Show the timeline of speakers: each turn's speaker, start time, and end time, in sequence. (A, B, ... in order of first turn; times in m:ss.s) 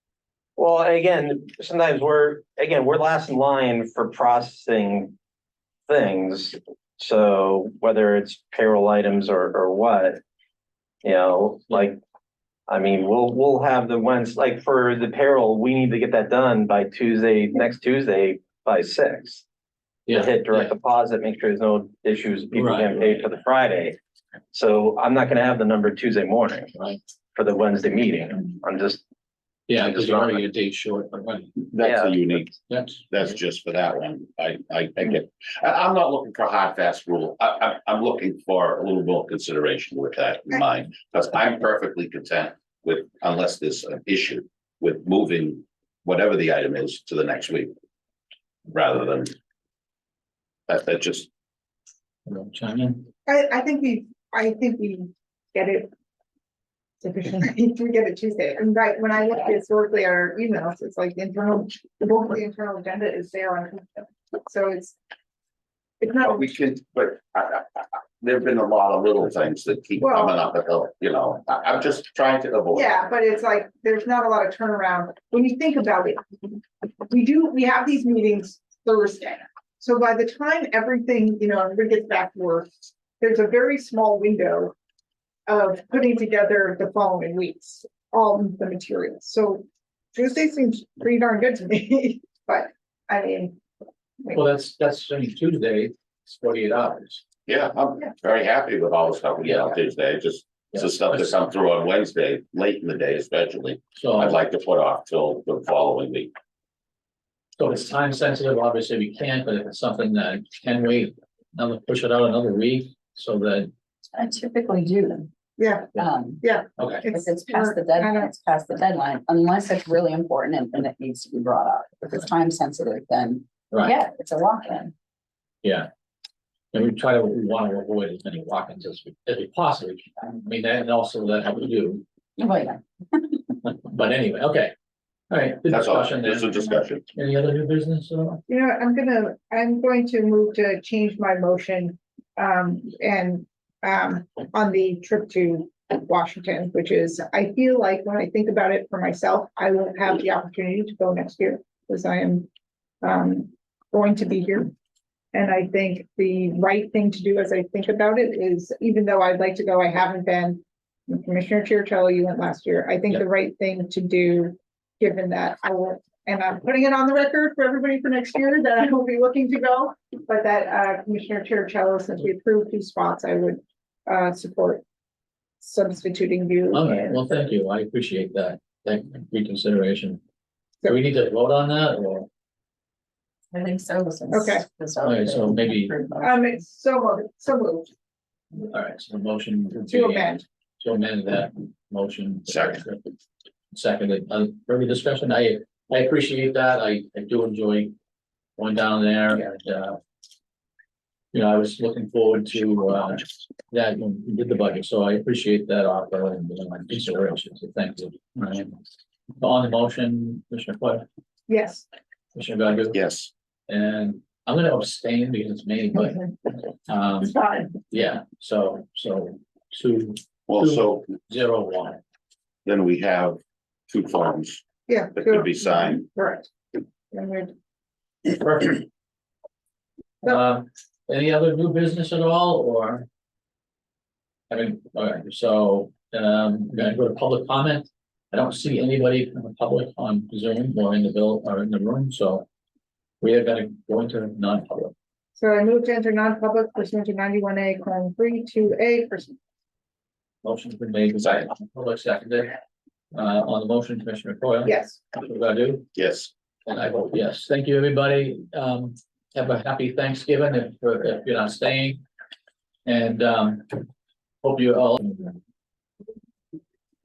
0:00.6-0:05.2 A
0:05.9-0:10.2 A
0:11.0-0:12.0 A
0:12.7-0:19.4 A
0:20.1-0:20.7 B
0:20.1-0:24.0 A
0:22.5-0:23.2 B
0:24.5-0:26.7 A
0:27.3-0:29.0 A
0:29.7-0:31.7 B
0:29.8-0:30.3 A
0:31.7-0:32.6 C
0:31.8-0:32.2 A
0:32.7-0:33.0 B
0:33.1-0:47.7 C
0:48.7-0:49.3 C
0:50.7-0:51.3 C
0:52.3-0:53.1 B
0:53.3-0:55.9 D
0:57.0-1:05.0 D
1:06.0-1:06.5 D
1:06.2-1:12.9 C
1:10.0-1:10.4 D
1:12.7-1:24.7 D
1:25.5-1:33.6 D
1:34.3-1:37.2 B
1:37.5-1:46.3 C
1:40.7-1:41.3 B
1:44.0-1:44.4 B
1:47.6-1:53.7 B
1:54.2-1:55.3 E
1:55.6-1:58.3 D
1:56.0-1:56.4 E
1:56.8-1:57.1 B
1:57.1-2:04.9 E
2:05.6-2:05.9 B
2:06.7-2:12.0 B
2:12.4-2:12.8 E
2:13.6-2:14.7 B
2:15.3-2:18.4 B
2:15.7-2:17.1 C
2:18.5-2:32.5 D
2:33.0-2:34.7 D
2:35.3-2:54.8 D
2:55.6-2:57.4 D
2:56.7-3:00.2 B
3:00.8-3:02.3 B
3:03.5-3:06.6 E
3:04.3-3:04.7 D
3:05.0-3:06.0 B
3:06.2-3:07.9 D
3:08.7-3:13.0 B
3:09.9-3:10.4 D
3:12.5-3:12.8 C
3:13.7-3:17.9 B
3:18.6-3:20.0 B
3:21.3-3:28.8 B
3:29.4-3:31.1 B
3:31.5-3:31.8 D
3:32.4-3:33.0 B
3:32.9-3:33.3 C
3:33.7-3:42.0 B
3:37.2-3:37.8 D
3:40.5-3:41.1 C
3:42.6-3:44.6 C
3:44.9-3:46.5 D
3:45.2-3:46.0 C
3:47.1-3:47.5 D
3:48.3-3:48.9 B
3:50.2-3:53.1 B
3:54.5-4:02.5 B
4:03.2-4:04.9 B
4:05.4-4:09.4 D
4:10.4-4:12.6 B
4:13.1-4:15.9 B
4:14.6-4:15.0 D
4:16.0-4:16.3 C
4:16.7-4:22.0 B
4:22.9-4:23.8 B
4:24.4-4:25.4 B